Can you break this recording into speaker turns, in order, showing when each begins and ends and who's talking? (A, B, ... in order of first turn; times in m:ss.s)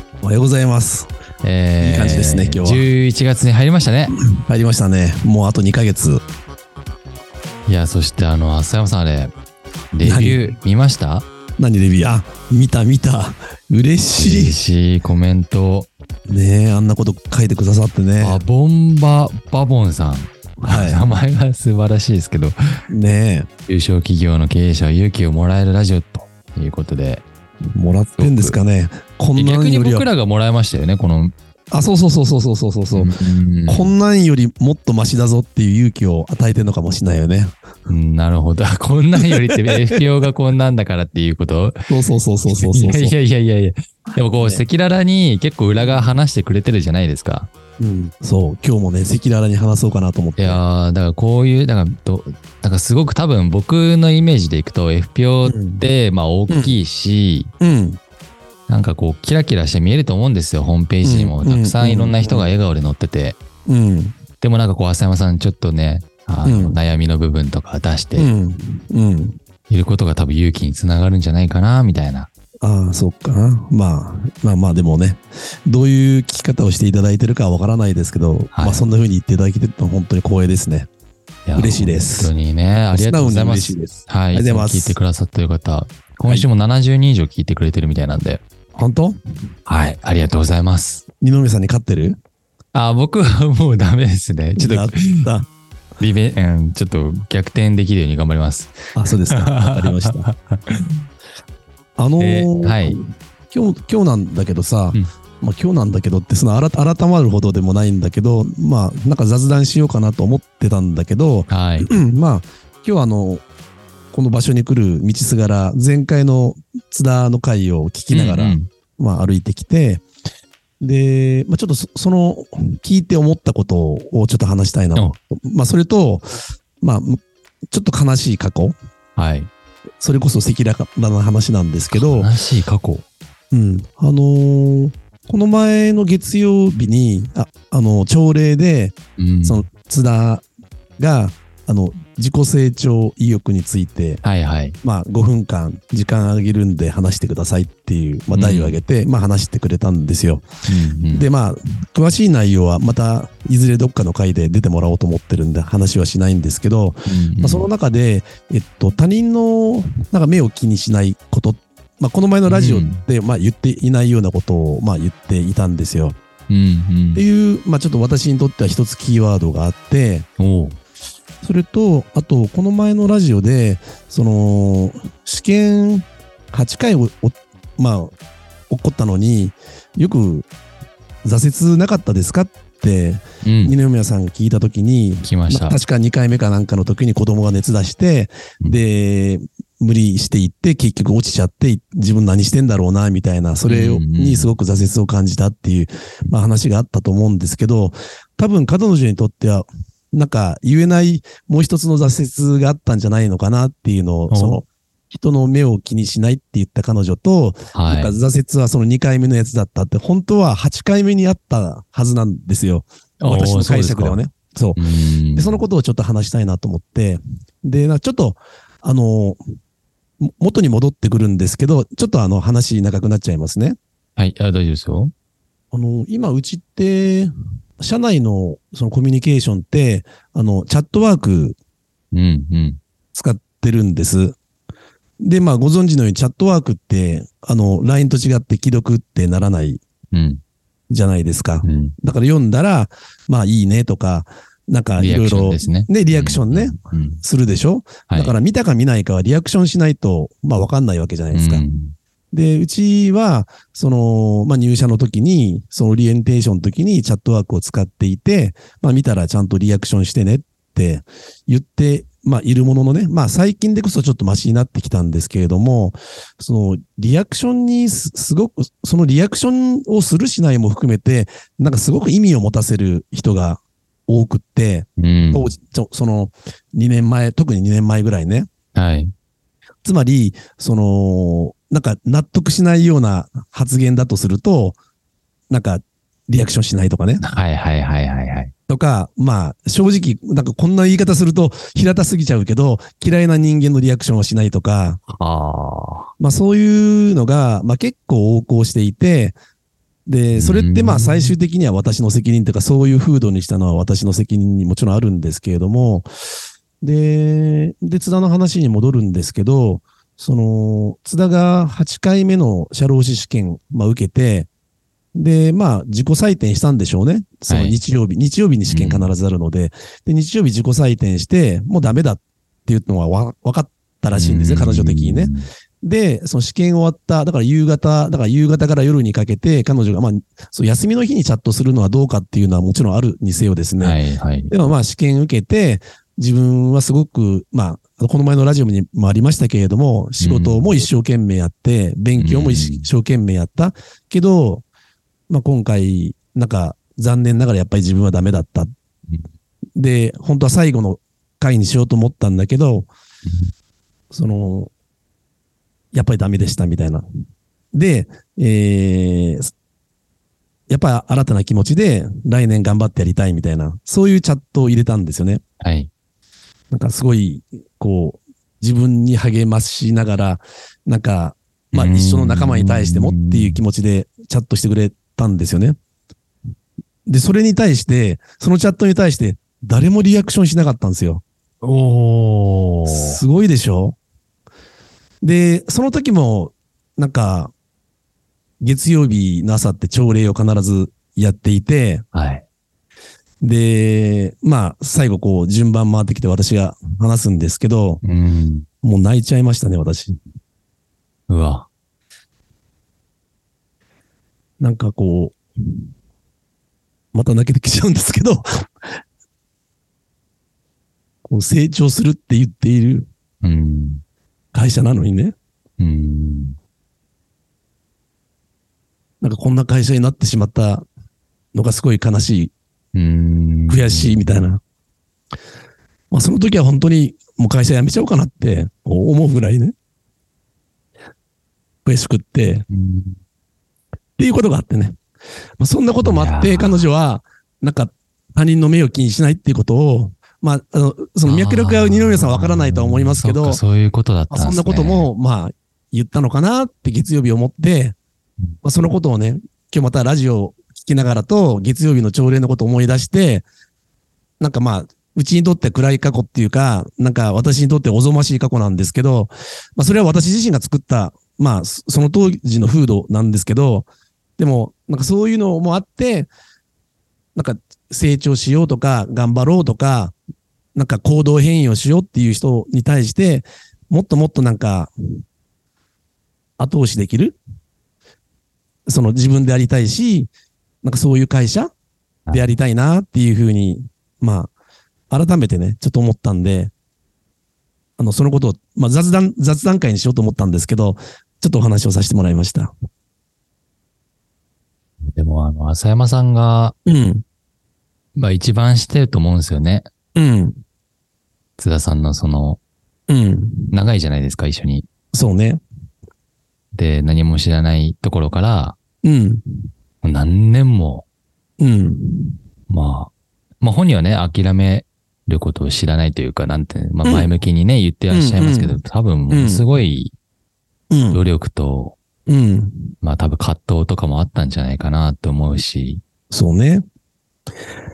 0:00.2-0:01.1 A
0:01.4-0:04.1 B
0:01.8-0:02.9 A
0:04.1-0:06.2 A
0:07.6-0:09.3 B
0:09.9-0:11.2 B
0:10.0-0:10.5 A
0:11.6-0:14.6 A
0:14.2-0:15.9 B
0:16.3-0:18.4 A
0:18.2-0:22.6 B
0:20.6-0:21.0 A
0:22.9-0:23.5 A
0:23.7-0:27.2 B
0:27.7-0:30.1 A
0:28.2-0:28.6 B
0:29.4-0:31.3 B
0:31.7-0:33.1 A
0:32.9-0:33.9 B
0:33.7-0:37.5 A
0:37.9-0:41.9 B
0:39.2-0:39.8 A
0:41.9-0:43.2 A
0:42.4-0:47.5 B
0:47.8-0:50.6 A
0:50.4-0:57.5 B
0:55.4-0:55.8 A
0:56.5-0:56.8 A
0:57.6-0:58.0 A
0:58.7-1:03.4 B
1:01.0-1:02.5 A
1:03.6-1:04.2 A
1:04.4-1:08.3 B
1:06.4-1:06.8 A
1:08.2-1:09.4 A
1:09.7-1:12.3 B
1:12.6-1:20.9 A
1:18.5-1:18.8 B
1:21.4-1:28.4 B
1:21.6-1:22.3 A
1:22.9-1:25.0 A
1:28.7-1:29.2 A
1:29.7-1:31.0 B
1:31.2-1:32.2 A
1:32.7-1:35.3 B
1:34.6-1:35.4 A
1:36.0-1:41.0 B
1:38.9-1:40.2 A
1:42.0-1:53.4 A
1:42.2-1:43.0 B
1:51.5-1:51.9 B
1:54.1-2:00.0 A
1:58.1-1:58.6 B
2:00.8-2:06.3 A
2:06.8-2:08.8 A
2:09.2-2:09.5 B
2:10.0-2:12.3 A
2:11.9-2:13.0 B
2:13.5-2:20.4 A
2:19.2-2:19.6 B
2:21.0-2:24.2 A
2:24.2-2:24.8 B
2:24.8-2:30.5 A
2:28.3-2:28.8 B
2:30.7-2:31.3 B
2:31.1-2:46.2 A
2:37.1-2:37.7 B
2:42.4-2:43.0 B
2:46.5-2:47.2 B
2:47.1-2:50.3 A
2:50.4-2:50.8 B
2:51.4-2:58.1 A
2:58.7-3:00.5 A
3:01.2-3:34.8 A
3:03.4-3:03.8 B
3:05.2-3:05.8 B
3:13.7-3:14.5 B
3:24.3-3:24.6 B
3:27.7-3:28.1 B
3:33.2-3:34.2 B
3:34.8-3:35.6 B
3:35.3-3:39.4 A
3:40.2-3:43.8 A
3:44.2-3:45.1 B
3:45.7-3:51.6 A
3:52.1-3:52.8 B
3:53.1-3:54.4 A
3:55.2-3:59.8 A
4:00.1-4:00.4 B
4:00.9-4:11.6 A
4:01.6-4:01.9 B
4:05.0-4:07.2 B
4:08.1-4:08.3 B
4:11.3-4:11.9 B
4:12.3-4:38.5 A
4:35.0-4:35.4 B
4:38.7-4:39.1 B
4:39.8-4:44.8 A
4:45.5-4:47.2 A
4:47.2-4:48.5 B
4:48.7-4:55.0 A
4:55.1-4:56.1 B
4:56.2-4:59.4 A
5:00.1-5:06.1 A
5:00.3-5:01.3 B
5:06.8-5:14.5 A
5:15.1-5:34.0 A
5:17.5-5:17.8 B
5:18.7-5:19.1 B
5:24.1-5:25.5 B
5:33.8-5:34.5 B
5:34.5-5:44.6 A
5:40.2-5:40.7 B
5:42.2-5:42.9 B
5:45.3-5:48.7 A
5:49.8-5:52.9 A
5:54.1-5:54.7 A
5:55.9-5:57.0 A
5:57.7-5:59.5 A
6:00.7-6:05.4 A
6:05.6-6:05.9 B
6:06.7-6:15.8 A
6:11.7-6:13.6 B
6:17.0-6:21.2 A
6:21.6-6:23.2 B
6:22.8-6:24.0 A
6:25.2-6:27.5 A
6:28.6-6:32.0 A
6:32.1-6:32.4 B
6:33.4-6:38.0 A
6:38.0-6:38.6 B
6:38.8-6:40.2 A
6:41.3-6:41.7 B
6:44.6-6:45.8 A
6:47.1-6:48.4 A
6:51.2-6:53.1 A
6:53.4-6:54.0 B
6:54.5-6:55.3 A
6:55.8-6:56.6 B
6:59.2-7:00.8 A
7:01.5-7:02.5 A
7:02.9-7:04.3 B
7:03.7-7:04.6 A
7:06.1-7:09.7 A
7:11.8-7:12.7 A
7:12.7-7:13.2 B
7:14.2-7:14.9 A
7:15.6-7:23.6 A
7:16.0-7:16.9 B
7:21.2-7:25.1 B
7:24.3-7:28.0 A
7:28.6-7:33.4 A
7:34.4-7:46.3 A
7:47.3-7:50.1 A
7:50.7-7:54.9 A
7:56.6-7:57.4 A
7:58.9-8:00.3 A
8:00.8-8:01.7 A
8:02.3-8:04.5 A
8:05.1-8:06.7 A
8:08.0-8:12.7 A
8:15.1-8:16.7 B
8:16.8-8:17.2 A
8:18.2-8:19.9 B
8:20.2-8:20.6 A
8:21.6-8:22.6 B
8:23.1-8:23.7 A
8:23.7-8:24.8 B
8:25.1-8:25.6 A
8:26.7-8:28.8 B
8:29.0-8:29.6 A
8:30.0-8:31.0 B
8:31.6-8:32.4 A
8:32.7-8:40.1 B
8:37.0-8:37.3 A
8:38.1-8:39.6 A
8:40.9-8:41.2 A
8:41.1-8:42.0 B
8:42.3-8:42.9 A
8:43.0-8:46.0 B
8:46.3-8:46.8 A